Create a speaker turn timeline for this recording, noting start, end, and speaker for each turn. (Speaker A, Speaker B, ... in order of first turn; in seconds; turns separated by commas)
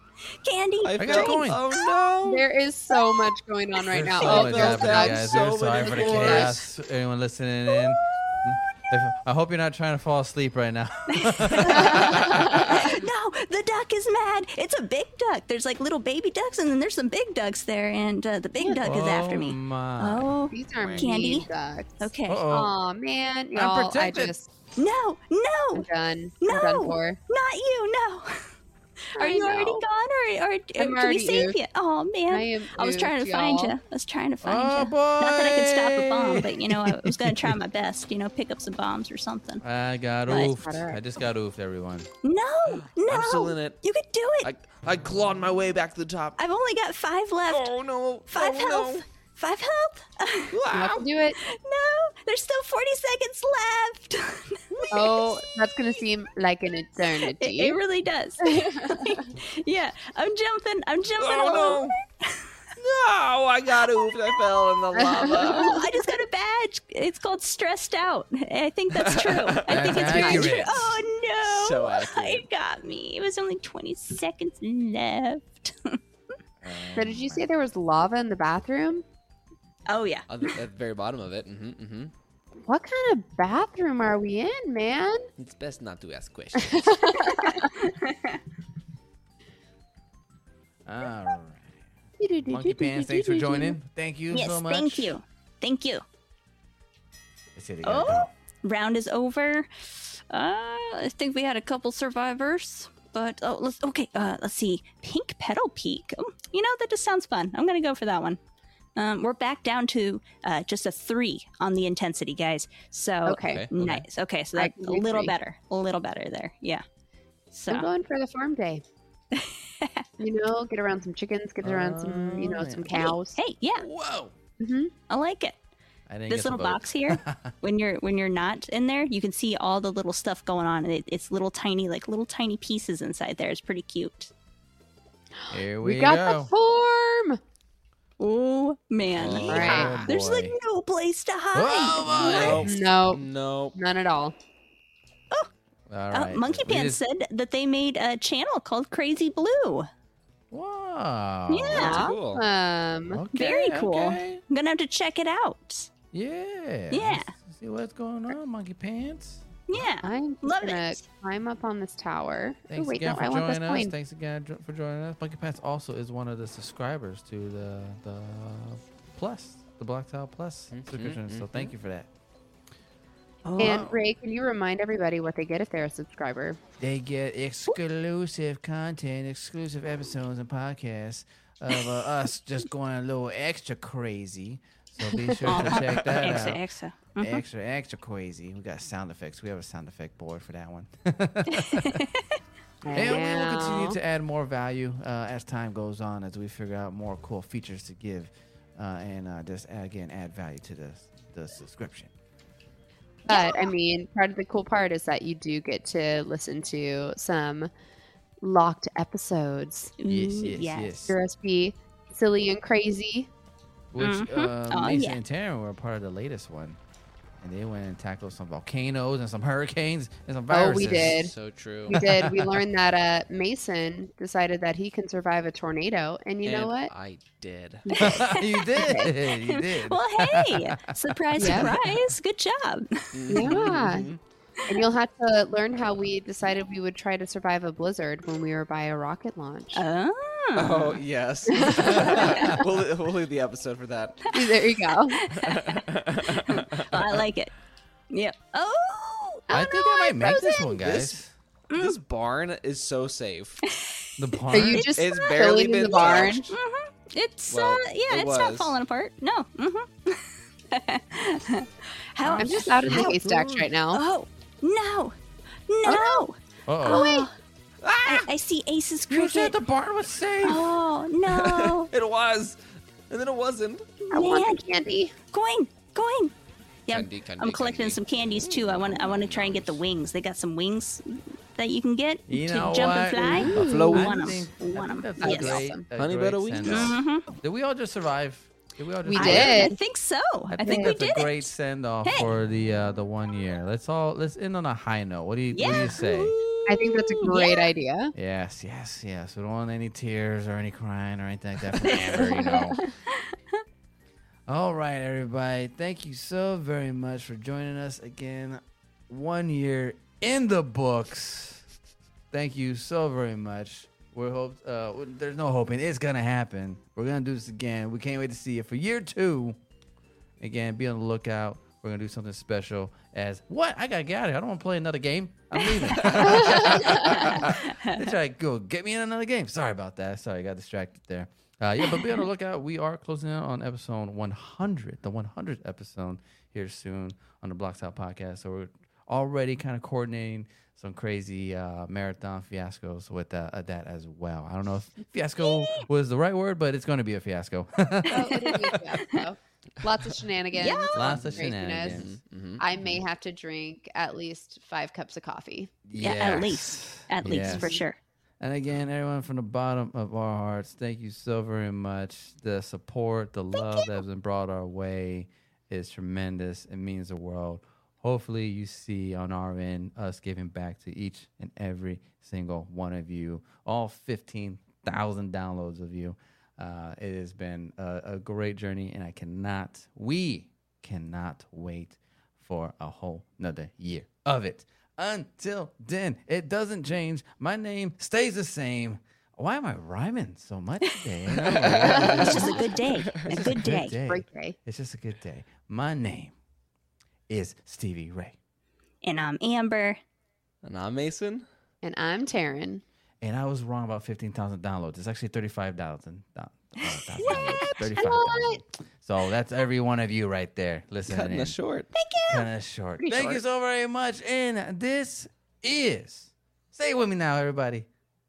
Speaker A: 0.4-1.9, Speaker B: 0.8-2.5, Speaker C: 1.0-1.6, Speaker D: 2.2-6.6, Speaker C: 3.9-12.7, Speaker B: 4.2-6.6, Speaker A: 8.6-9.1, Speaker A: 11.1-21.5, Speaker D: 11.7-12.8, Speaker C: 18.8-20.3, Speaker D: 20.5-24.5, Speaker B: 20.8-21.1, Speaker A: 22.0-22.4, Speaker C: 22.3-22.7, Speaker C: 23.5-24.3, Speaker A: 24.8-25.9, Speaker D: 25.7-27.2, Speaker A: 26.4-28.4, Speaker A: 29.1-39.6, Speaker D: 29.2-29.8, Speaker D: 30.8-31.6, Speaker D: 32.3-33.8, Speaker C: 34.4-37.6, Speaker C: 39.6-42.1, Speaker D: 40.3-41.0, Speaker A: 42.2-44.5, Speaker B: 42.7-43.8, Speaker B: 44.4-46.4, Speaker A: 46.4-47.7, Speaker B: 47.5-49.0, Speaker A: 48.3-50.6, Speaker B: 50.5-51.0, Speaker D: 50.7-51.4, Speaker A: 51.4-55.4, Speaker B: 54.8-55.1, Speaker D: 54.9-57.8, Speaker A: 57.2-62.5, Speaker D: 58.4-59.2, Speaker B: 61.2-62.0, Speaker B: 62.8-65.8, Speaker D: 65.0-65.8, Speaker A: 65.4-76.0, Speaker B: 69.0-69.9, Speaker C: 69.7-71.0, Speaker D: 70.0-70.6, Speaker B: 71.5-72.4, Speaker C: 76.6-77.5, Speaker D: 77.0-79.0, Speaker A: 79.9-80.3, Speaker B: 80.3-82.1, Speaker D: 82.7-85.3, Speaker B: 85.4-86.9, Speaker D: 86.6-87.7, Speaker A: 87.2-88.4, Speaker C: 90.9-91.8, Speaker D: 92.2-93.8, Speaker C: 92.5-95.1, Speaker A: 94.3-96.0, Speaker C: 97.5-98.3, Speaker A: 97.8-108.4, Speaker A: 109.0-116.8, Speaker D: 113.3-113.7, Speaker C: 113.8-114.1, Speaker D: 114.5-115.3, Speaker A: 117.5-117.9, Speaker D: 117.7-118.8, Speaker A: 119.3-120.0, Speaker D: 120.2-123.4, Speaker C: 121.6-123.1, Speaker A: 122.9-123.9, Speaker C: 123.8-124.3, Speaker D: 124.6-124.9, Speaker A: 125.1-125.6, Speaker C: 126.1-127.5, Speaker A: 126.3-134.3, Speaker D: 135.4-137.4, Speaker C: 135.5-136.5, Speaker A: 138.2-142.2, Speaker C: 139.1-140.6, Speaker B: 139.2-139.9, Speaker D: 139.5-140.1, Speaker C: 141.6-142.8, Speaker B: 142.1-143.8, Speaker D: 142.2-144.3, Speaker C: 145.9-147.0, Speaker A: 146.1-149.9, Speaker C: 150.5-152.0, Speaker A: 151.5-152.0, Speaker D: 151.7-153.2, Speaker B: 151.8-152.4, Speaker C: 153.1-154.4, Speaker A: 153.3-155.9, Speaker C: 156.1-159.5, Speaker A: 156.9-157.3, Speaker A: 159.7-161.0, Speaker D: 160.0-163.9, Speaker C: 162.7-172.1, Speaker B: 170.7-171.7, Speaker A: 173.4-173.8, Speaker C: 173.6-174.0, Speaker D: 173.6-176.6, Speaker C: 176.8-186.6, Speaker D: 185.0-185.8, Speaker A: 185.5-187.4, Speaker C: 187.2-192.0, Speaker A: 191.5-192.2, Speaker D: 192.8-194.0, Speaker C: 192.9-202.1, Speaker D: 203.3-207.7, Speaker A: 203.3-203.7, Speaker D: 208.4-209.9, Speaker A: 210.0-211.0, Speaker C: 210.1-211.2, Speaker D: 211.1-213.3, Speaker C: 213.9-216.8, Speaker A: 214.0-215.2, Speaker C: 217.4-221.3, Speaker D: 220.5-221.3, Speaker B: 220.8-222.1, Speaker D: 221.9-226.9, Speaker C: 221.9-222.7, Speaker B: 226.4-228.3, Speaker A: 227.9-233.5, Speaker C: 228.0-232.1, Speaker D: 228.8-229.1, Speaker D: 231.4-231.7, Speaker B: 233.1-234.2, Speaker D: 233.3-234.1, Speaker D: 234.7-239.8, Speaker A: 239.8-241.0, Speaker B: 240.6-244.3, Speaker D: 241.5-242.6, Speaker C: 241.8-242.2, Speaker A: 241.9-242.6, Speaker D: 244.3-245.2, Speaker A: 245.1-245.9, Speaker B: 245.4-247.2, Speaker A: 246.4-247.5, Speaker A: 248.1-249.6, Speaker D: 249.5-250.8, Speaker C: 249.5-251.3, Speaker B: 250.8-251.2, Speaker A: 251.7-252.0, Speaker B: 251.8-253.6, Speaker A: 253.7-254.8, Speaker C: 254.2-254.9, Speaker D: 254.5-256.5, Speaker B: 254.9-256.6, Speaker A: 256.0-263.2, Speaker B: 257.5-258.8, Speaker C: 262.2-263.7, Speaker D: 262.4-264.0, Speaker A: 263.9-265.1, Speaker A: 265.7-267.3, Speaker D: 265.9-266.2, Speaker C: 266.7-267.1, Speaker D: 266.9-267.3, Speaker B: 267.8-268.3, Speaker A: 268.0-269.6, Speaker C: 269.1-270.7, Speaker A: 270.4-271.9, Speaker B: 271.3-272.6, Speaker B: 273.1-273.9, Speaker A: 274.1-274.6, Speaker D: 274.1-275.1, Speaker A: 275.3-276.3, Speaker A: 276.9-285.6, Speaker B: 276.9-279.8, Speaker C: 282.3-289.7, Speaker D: 283.2-284.2, Speaker B: 283.6-284.3, Speaker D: 285.2-285.9, Speaker B: 286.0-287.0, Speaker A: 286.7-287.3, Speaker D: 289.1-289.8, Speaker A: 289.1-291.5, Speaker C: 290.5-296.4, Speaker D: 290.6-291.0, Speaker A: 292.0-292.3, Speaker A: 295.5-297.7, Speaker D: 296.7-298.1, Speaker C: 298.1-302.8, Speaker A: 301.9-303.6, Speaker C: 304.5-311.6, Speaker C: 312.3-319.6, Speaker C: 320.4-348.8, Speaker A: 325.9-328.1, Speaker D: 326.3-327.1, Speaker A: 331.8-332.1, Speaker A: 345.4-345.9, Speaker D: 348.1-352.1, Speaker A: 350.6-350.9, Speaker C: 350.9-352.1, Speaker B: 351.1-353.0, Speaker D: 352.6-355.7, Speaker C: 355.9-357.7, Speaker A: 356.0-358.0, Speaker D: 357.4-357.8, Speaker C: 358.4-396.3, Speaker A: 363.5-364.0, Speaker B: 391.6-392.4, Speaker A: 391.8-393.9, Speaker D: 391.9-392.6, Speaker D: 394.1-394.6, Speaker C: 397.3-398.4, Speaker A: 399.0-400.0, Speaker B: 400.6-401.5, Speaker D: 401.8-402.8, Speaker C: 403.2-411.6, Speaker A: 407.2-407.7, Speaker D: 407.3-408.6, Speaker B: 411.1-411.9, Speaker A: 411.9-412.5, Speaker C: 412.3-417.9, Speaker D: 413.0-413.4